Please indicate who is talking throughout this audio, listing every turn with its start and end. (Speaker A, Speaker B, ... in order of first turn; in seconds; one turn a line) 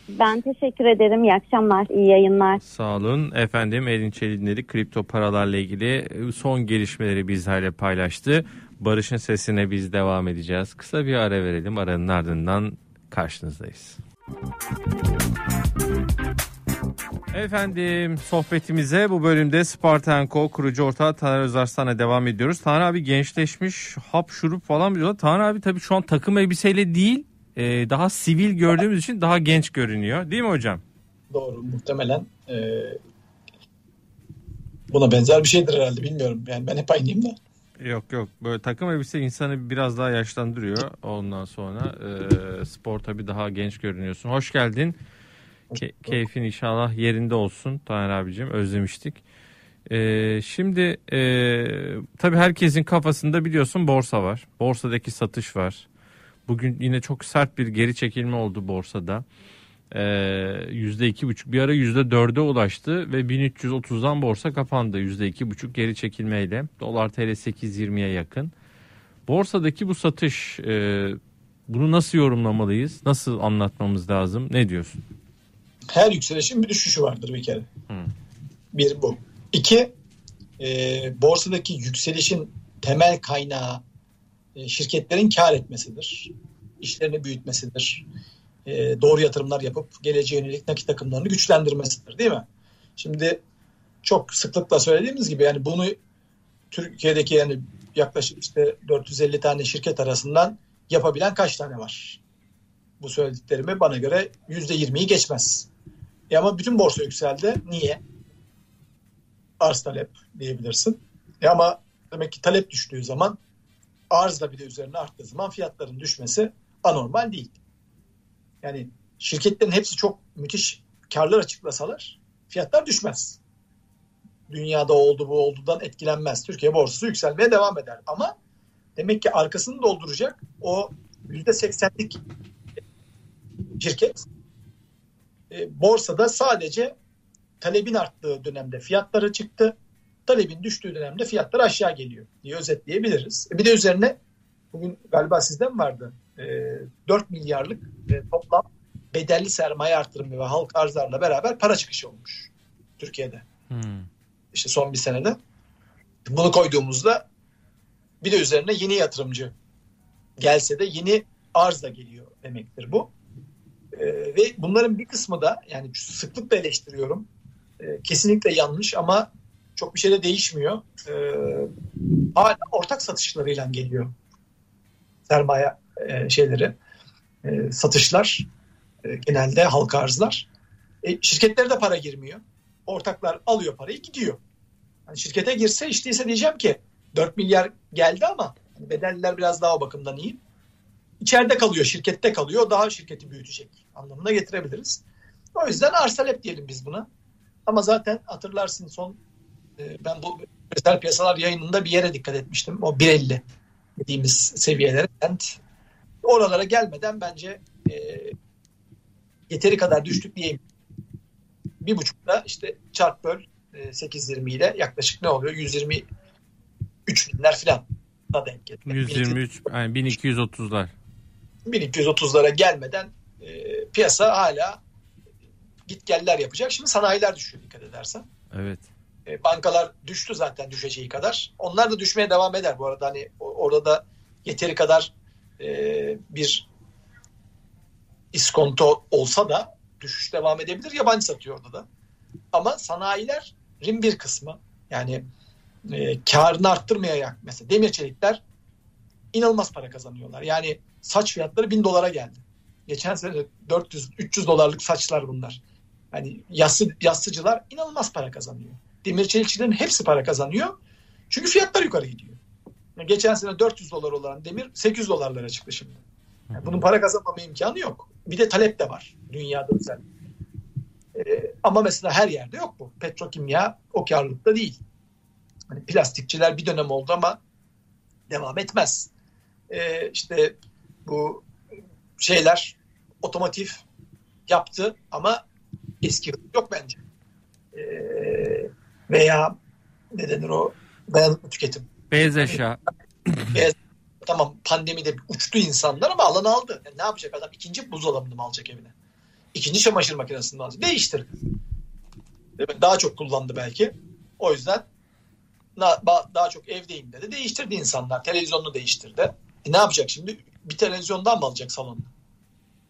Speaker A: 0.1-2.6
Speaker B: 2.6-14.0
Speaker B: 17.3-30.8
Speaker C: 31.3-33.0
Speaker C: 34.9-37.4
Speaker B: 37.8-45.0
Speaker C: 45.7-46.2
Speaker B: 45.7-49.2
Speaker B: 49.9-55.9
Speaker B: 56.5-59.2
Speaker B: 59.9-68.5
Speaker B: 69.3-75.0
Speaker C: 75.9-77.7
Speaker C: 78.7-79.9
Speaker C: 80.6-83.8
Speaker C: 84.5-88.0
Speaker C: 88.7-92.4
Speaker C: 93.0-93.4
Speaker C: 94.0-96.0
Speaker C: 96.7-102.2
Speaker C: 103.0-105.7
Speaker C: 106.3-108.0
Speaker C: 109.6-113.4
Speaker C: 114.1-117.6
Speaker C: 118.6-123.4
Speaker C: 124.5-128.3
Speaker C: 128.9-132.2
Speaker C: 133.8-134.3
Speaker C: 135.5-136.9
Speaker C: 137.6-139.7
Speaker C: 140.3-144.2
Speaker C: 144.7-153.4
Speaker B: 153.7-154.1
Speaker C: 154.5-155.4
Speaker C: 156.2-157.2
Speaker C: 158.2-159.5
Speaker C: 160.4-163.1
Speaker C: 163.9-167.3
Speaker C: 167.8-171.7
Speaker C: 172.3-174.1
Speaker C: 175.3-176.8
Speaker C: 177.4-178.5
Speaker C: 179.0-180.5
Speaker C: 181.0-184.4
Speaker C: 185.1-190.4
Speaker C: 191.2-195.0
Speaker C: 195.5-197.1
Speaker C: 197.7-199.2
Speaker C: 199.8-203.4
Speaker C: 204.0-205.6
Speaker C: 206.2-208.3
Speaker C: 209.5-210.6
Speaker C: 211.8-216.0
Speaker C: 217.1-219.4
Speaker B: 218.8-220.9
Speaker C: 221.7-224.8
Speaker C: 225.9-228.2
Speaker B: 228.5-228.9
Speaker C: 229.2-236.7
Speaker C: 238.3-241.8
Speaker C: 242.5-245.2
Speaker C: 245.9-248.4
Speaker C: 249.3-255.6
Speaker C: 256.1-260.7
Speaker C: 261.3-262.4
Speaker C: 263.0-266.0
Speaker B: 266.5-266.8
Speaker C: 266.5-270.0
Speaker C: 271.1-274.8
Speaker C: 275.7-277.4
Speaker C: 278.3-279.1
Speaker C: 279.7-281.4
Speaker C: 282.2-283.8
Speaker C: 284.5-285.4
Speaker C: 286.0-287.0
Speaker C: 287.7-289.6
Speaker C: 290.1-292.6
Speaker B: 292.1-293.6
Speaker C: 293.5-298.9
Speaker C: 299.5-301.3
Speaker C: 302.6-304.9
Speaker C: 305.8-312.1